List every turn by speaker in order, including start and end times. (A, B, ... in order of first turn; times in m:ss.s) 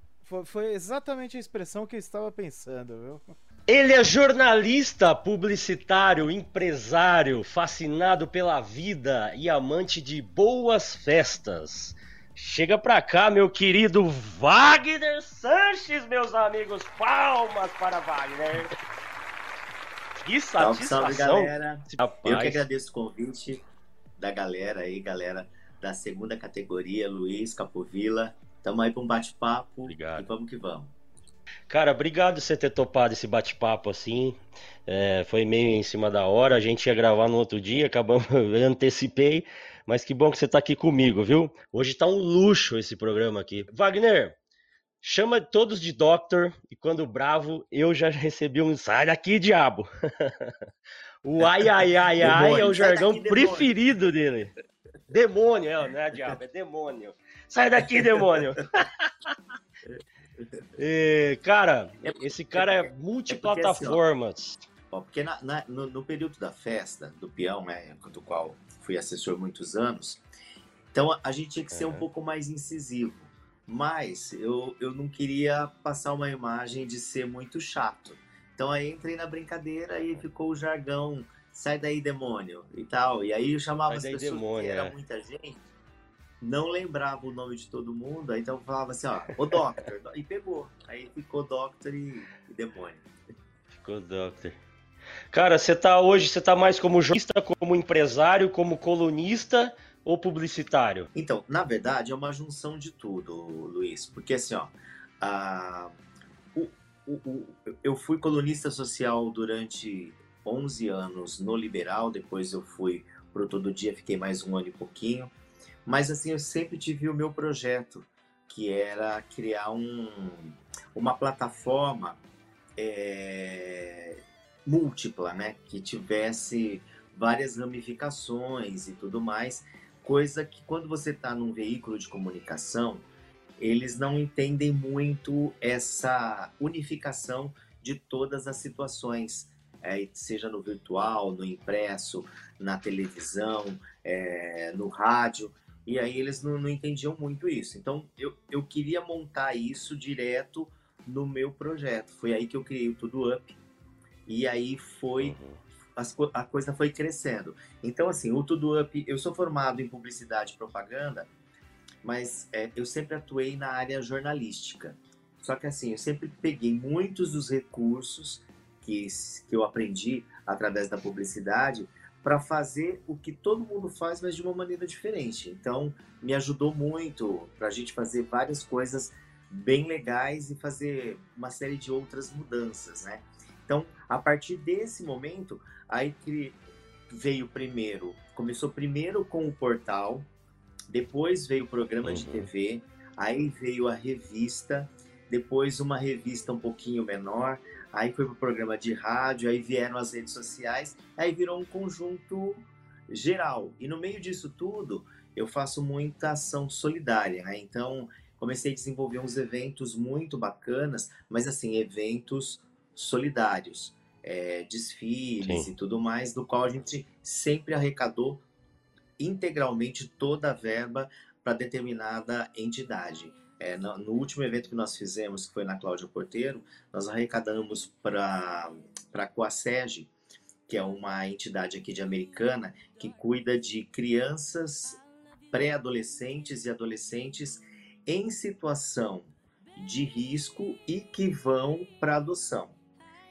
0:00.2-0:03.2 A
0:03.7-0:18.7 B
0:20.2-0:22.6 B
0:20.6-0:23.6 C
0:24.2-0:30.9 C
0:29.9-0:30.2 B
0:31.7-0:44.4 B
0:45.0-0:50.6 B
0:51.2-0:54.5 B
0:52.2-0:53.7 C
0:55.1-0:59.4 B
0:58.1-0:58.3 C
1:00.8-1:04.6 B
1:02.0-1:04.0 C
1:04.9-1:10.2 C
1:10.9-1:25.6 C
1:11.7-1:12.1 B
1:23.9-1:25.0 B
1:26.4-1:33.0 C
1:33.8-1:34.6 B
1:35.3-1:41.1 B
1:41.2-1:46.0 C
1:46.6-1:55.3 C
1:55.9-2:02.2 C
2:02.8-2:13.1 C
2:13.6-2:33.6 C
2:34.3-2:35.4 C
2:35.2-2:35.6 B
2:36.0-2:41.3 C
2:42.0-3:06.6 C
3:07.1-3:10.3 C
3:10.9-3:38.4 C
3:12.0-3:12.5 B
3:39.2-3:50.1 C
3:50.7-3:55.0 C
3:55.5-4:02.8 C